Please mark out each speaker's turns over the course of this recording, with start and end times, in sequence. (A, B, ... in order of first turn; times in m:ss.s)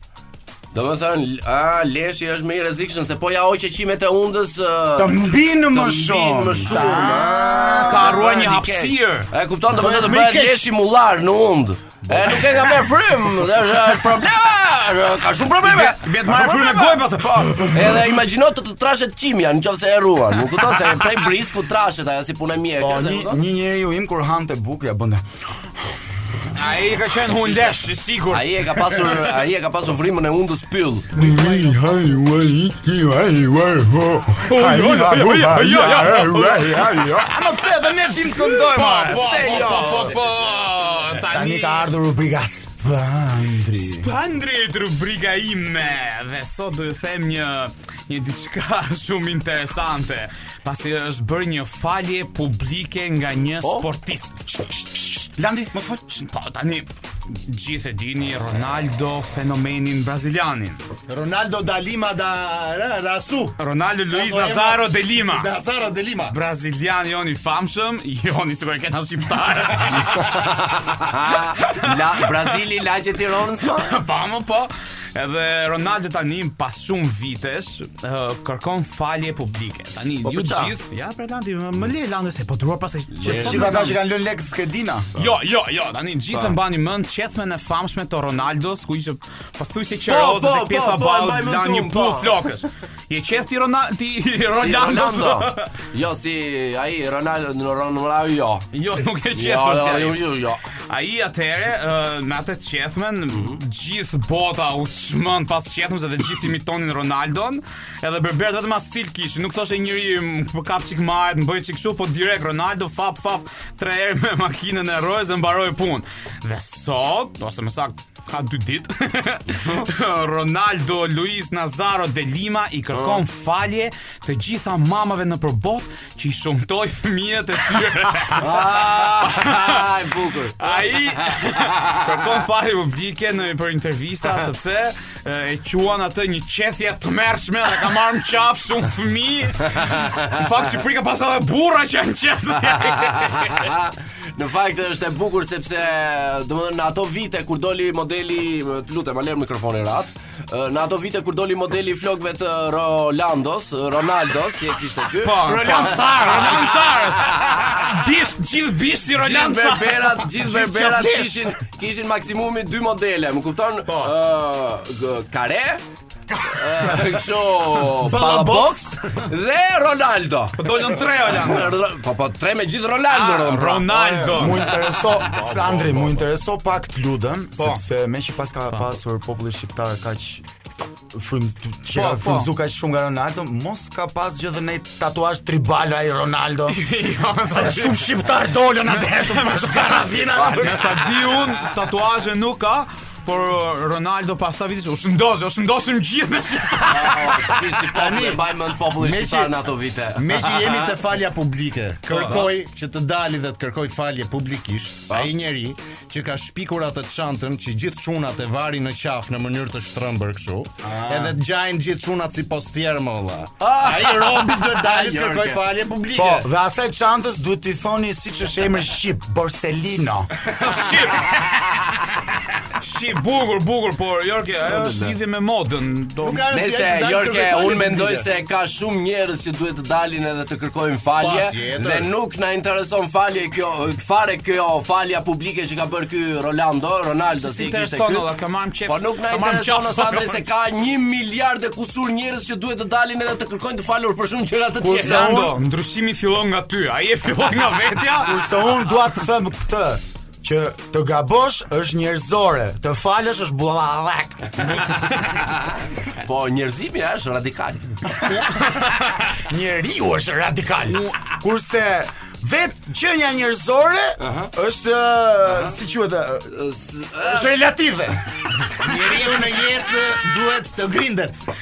0:00.7-0:23.4 A
0:05.0-0:08.3 B
0:06.8-0:09.3 C
0:09.8-0:10.6 D
0:09.8-0:10.5 B
0:12.1-0:12.8 D
0:15.6-0:18.0 C
0:22.8-0:26.0 B
0:26.5-0:29.2 C
0:27.5-0:27.7 A
0:28.3-0:31.2 A
0:31.1-0:40.2 B
0:34.5-0:37.5 C
0:38.4-0:41.9 C
0:41.2-0:44.1 B
0:43.8-0:54.5 C
0:54.5-0:56.3 B
0:56.3-1:00.8 C
1:01.1-1:03.6 D
1:03.6-1:05.5 C
1:04.1-1:06.4 D
1:06.3-1:10.4 C
1:10.2-1:13.9 A
1:11.7-1:11.9 C
1:13.8-1:24.0 C
1:20.2-1:20.7 A
1:23.2-1:23.9 A
1:23.2-1:25.1 B
1:25.2-1:35.7 C
1:30.1-1:32.4 A
1:34.6-1:38.7 A
1:38.7-1:40.2 C
1:39.3-1:40.6 A
1:40.9-2:09.9 C
2:02.9-2:03.2 A
2:08.4-2:12.0 A
2:10.6-2:23.7 C
2:23.1-2:37.9 A
2:35.2-2:40.3 C
2:35.5-2:36.6 B
2:39.1-2:45.8 A
2:40.4-2:41.5 B
2:43.9-2:44.1 C
2:46.3-2:47.2 B
2:46.5-2:50.6 A
2:48.0-2:49.0 B
2:50.6-2:51.8 C
2:51.3-2:55.8 A
2:53.1-2:54.7 C
2:54.0-3:00.4 B
2:55.6-2:56.0 D
2:57.6-2:57.8 C
3:01.1-3:06.8 B
3:02.0-3:02.5 C
3:06.7-3:08.2 C
3:07.5-3:11.0 B
3:08.9-3:17.6 C
3:10.4-3:10.9 A
3:16.9-3:21.0 A
3:17.9-3:18.4 B
3:18.9-3:19.6 D
3:20.2-3:36.5 D
3:22.1-3:22.5 C
3:22.1-3:22.5 A
3:30.8-3:31.4 B
3:33.6-3:35.6 A
3:36.1-3:40.7 B
3:40.6-3:41.5 C
3:42.8-3:46.5 C
3:44.7-3:45.1 A
3:46.2-3:48.3 D
3:46.5-3:58.3 A
3:51.2-3:52.1 D
3:57.4-4:00.4 C
3:58.9-4:05.4 A
4:04.8-4:05.6 B
4:04.9-4:08.4 C
4:08.2-4:14.7 B
4:14.6-4:15.4 C
4:15.3-4:18.0 A
4:18.2-4:26.5 B
4:18.7-4:19.1 C
4:24.2-4:24.5 A
4:25.5-4:25.8 A
4:26.5-4:27.5 A
4:27.2-4:28.6 B
4:28.8-4:31.4 D